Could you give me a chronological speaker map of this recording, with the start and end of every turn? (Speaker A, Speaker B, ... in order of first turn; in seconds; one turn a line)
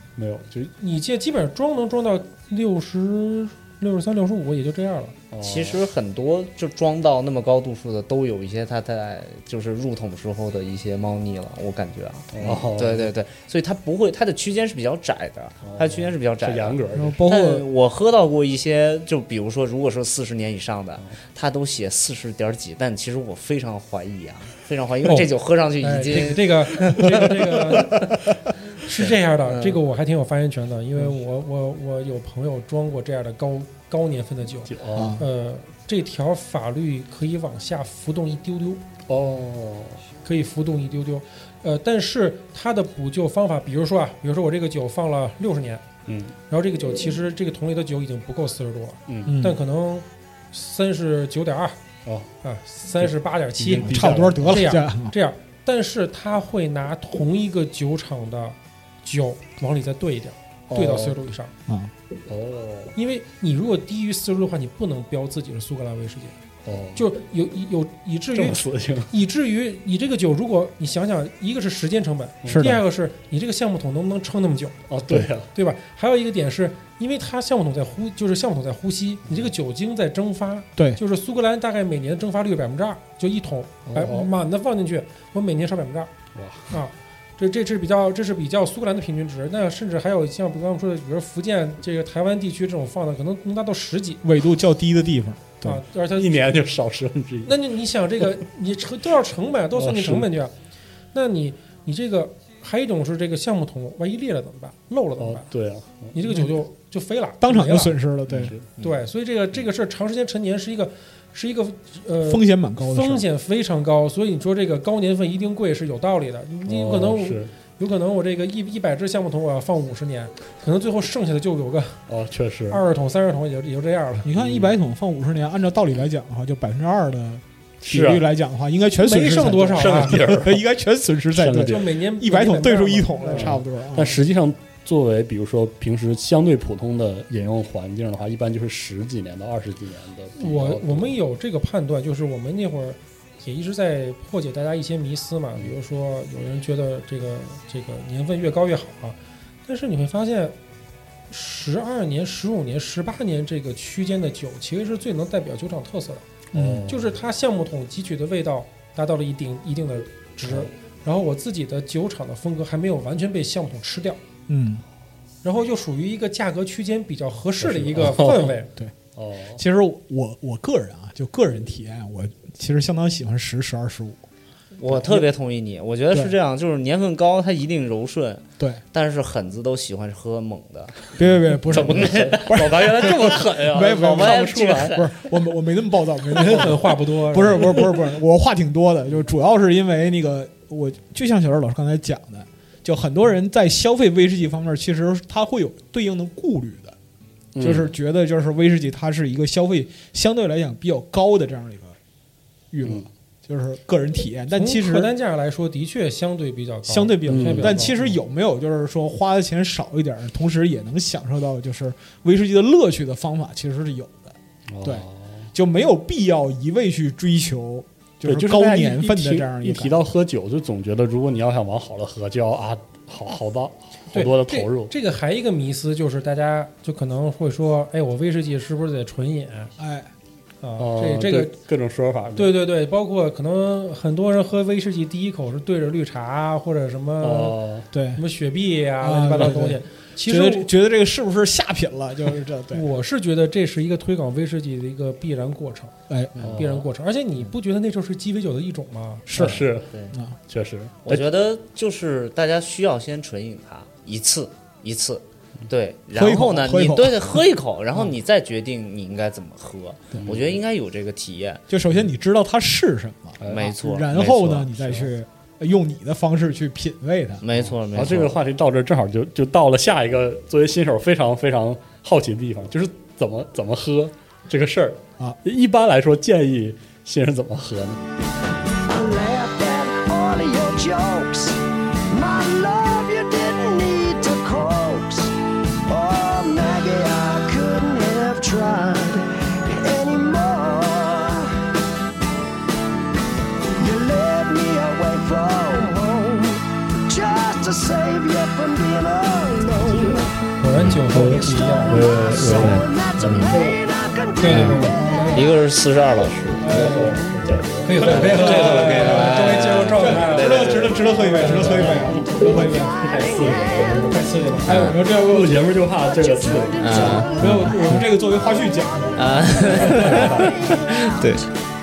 Speaker A: 0.1-0.7
Speaker B: 0.8-5.2
Speaker A: 5.3-5.8
Speaker C: 5.4-27.0
Speaker A: 12.3-13.1
Speaker A: 15.6-17.2
Speaker D: 16.9-17.7
Speaker B: 25.0-28.1
Speaker B: 28.8-38.8
Speaker A: 34.7-35.2
Speaker D: 34.9-35.2
Speaker A: 39.1-40.0
Speaker B: 40.2-45.8
Speaker A: 46.0-46.3
Speaker B: 46.5-51.8
Speaker A: 49.1-49.4
Speaker D: 49.2-49.6
Speaker A: 52.0-52.3
Speaker B: 52.4-61.5
Speaker A: 53.0-54.6
Speaker D: 53.8-55.1
Speaker A: 60.7-61.2
Speaker D: 61.7-61.9
Speaker A: 62.3-62.9
Speaker B: 62.9-66.3
Speaker A: 66.6-67.0
Speaker B: 67.0-74.8
Speaker A: 68.3-69.1
Speaker A: 72.4-72.7
Speaker D: 72.4-72.8
Speaker A: 74.9-75.5
Speaker B: 75.5-86.1
Speaker A: 83.8-84.3
Speaker A: 86.3-86.8
Speaker B: 86.7-94.2
Speaker D: 94.2-95.8
Speaker B: 95.6-96.5
Speaker A: 96.1-97.6
Speaker B: 97.4-100.5
Speaker A: 99.7-100.3
Speaker B: 101.1-105.5
Speaker A: 105.2-106.2
Speaker B: 106.1-108.0
Speaker D: 107.4-108.5
Speaker A: 108.3-108.9
Speaker B: 108.8-122.0
Speaker D: 112.2-113.2
Speaker A: 116.7-117.5
Speaker A: 122.1-122.8
Speaker B: 122.7-124.3
Speaker D: 124.2-134.2
Speaker A: 124.3-124.7
Speaker A: 127.8-128.2
Speaker B: 129.0-130.2
Speaker A: 129.7-130.6
Speaker A: 131.3-131.9
Speaker B: 131.6-133.6
Speaker A: 133.3-141.1
Speaker B: 140.4-150.5
Speaker B: 151.3-156.3
Speaker D: 156.5-156.9
Speaker A: 156.5-157.1
Speaker B: 156.9-164.2
Speaker D: 164.5-164.8
Speaker B: 165.4-168.7
Speaker A: 167.6-168.5
Speaker D: 168.0-168.9
Speaker A: 169.2-169.6
Speaker D: 169.5-174.2
Speaker C: 174.8-185.1
Speaker D: 174.9-175.3
Speaker D: 181.2-196.9
Speaker A: 181.7-185.0
Speaker B: 186.3-188.0
Speaker A: 197.5-197.9
Speaker D: 197.6-202.0
Speaker D: 202.7-205.1
Speaker A: 202.8-203.1
Speaker B: 204.5-208.0
Speaker D: 206.8-220.0
Speaker A: 207.3-208.1
Speaker A: 214.7-215.5
Speaker A: 218.2-224.9
Speaker B: 224.1-229.7
Speaker D: 229.8-230.1
Speaker B: 230.6-231.5
Speaker A: 230.8-232.6
Speaker B: 232.3-237.6
Speaker A: 237.2-237.9
Speaker D: 237.9-238.2
Speaker B: 238.1-240.7
Speaker D: 239.0-242.8
Speaker B: 242.7-245.9
Speaker D: 246.1-246.6
Speaker A: 246.4-246.9
Speaker B: 246.5-249.3
Speaker D: 249.3-250.4
Speaker A: 249.3-249.9
Speaker A: 250.5-251.3
Speaker C: 251.1-261.6
Speaker D: 256.1-257.4
Speaker A: 260.1-260.6
Speaker D: 261.7-267.4
Speaker A: 263.4-263.7
Speaker C: 263.4-264.7
Speaker C: 267.4-268.4
Speaker A: 267.5-278.1
Speaker E: 278.9-285.3
Speaker E: 285.9-291.5
Speaker E: 293.8-300.4
Speaker B: 300.6-302.6
Speaker A: 301.1-303.8
Speaker E: 301.2-305.2
Speaker C: 302.5-303.6
Speaker B: 304.4-305.0
Speaker C: 304.4-304.8
Speaker D: 304.6-305.5
Speaker C: 305.3-307.0
Speaker A: 306.5-308.9
Speaker D: 306.6-307.2
Speaker B: 307.8-312.3
Speaker C: 308.0-311.0
Speaker D: 308.2-313.0
Speaker A: 311.4-314.2
Speaker E: 312.7-314.1
Speaker B: 313.8-314.8
Speaker D: 314.6-315.9
Speaker C: 314.7-315.0
Speaker A: 315.1-317.5
Speaker E: 316.2-317.2
Speaker C: 316.8-318.0
Speaker D: 317.3-320.4
Speaker C: 319.1-321.4
Speaker A: 319.6-320.8
Speaker E: 320.7-321.1